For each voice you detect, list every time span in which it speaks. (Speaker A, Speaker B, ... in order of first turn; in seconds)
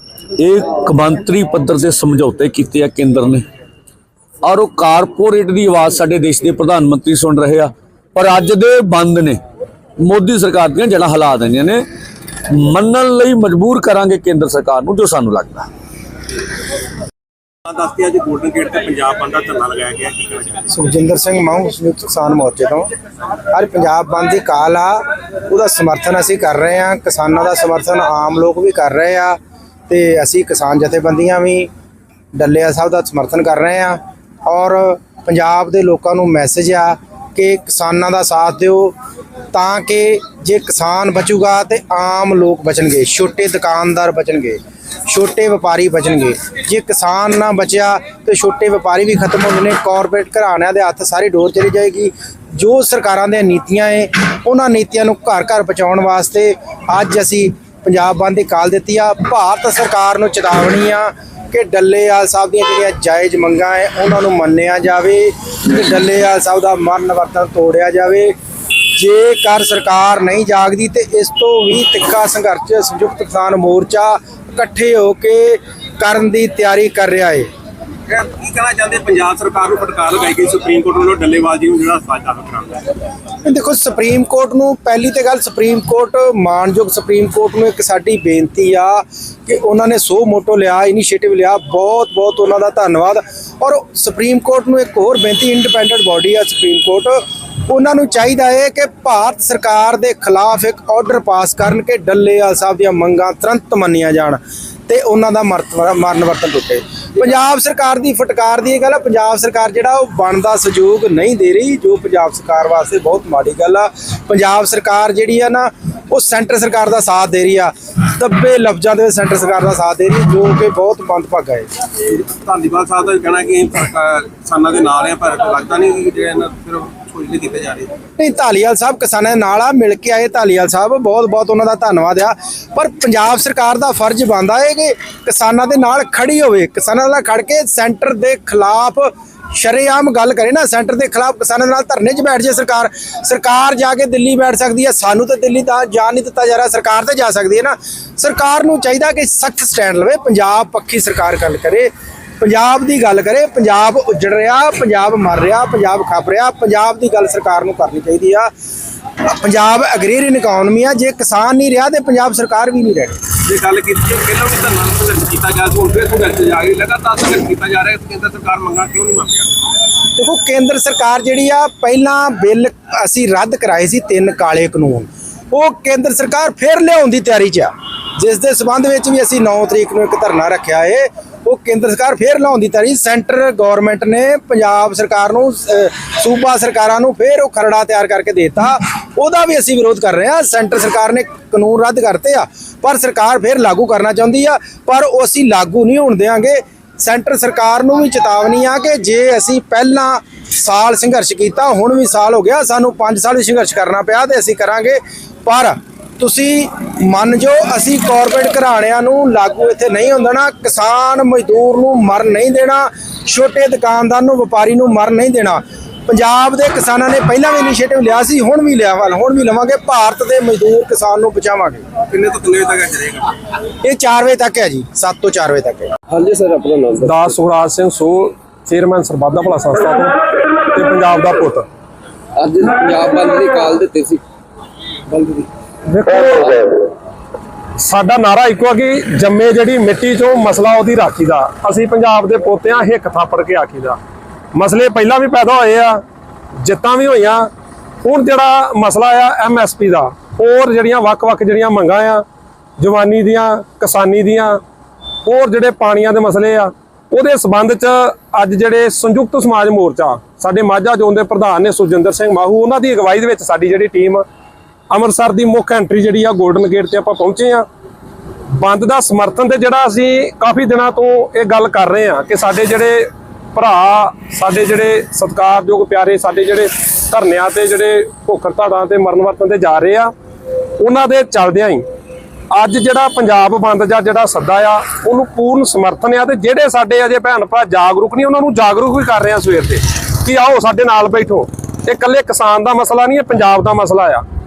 Speaker A: 0.4-3.4, 4.4-9.4, 10.0-11.8, 12.5-15.7
Speaker B: 17.6-20.7, 78.1-83.0, 122.0-128.0, 163.4-169.5, 222.0-223.3, 235.1-235.5
Speaker C: 20.7-22.9, 23.5-31.7, 32.3-39.0, 39.5-68.3, 68.9-77.5, 83.4-121.7, 128.2-158.5, 159.2-163.2, 170.2-221.8, 223.8-225.9
Speaker D: 226.1-227.2, 232.3-234.2
Speaker E: 227.0-230.2, 230.7-231.6, 235.8-236.8, 237.8-244.0, 244.5-246.0, 246.6-247.5, 248.0-252.2, 252.8-254.6, 255.2-264.2, 264.9-267.6, 268.5-280.1, 280.8-281.8, 282.5-294.2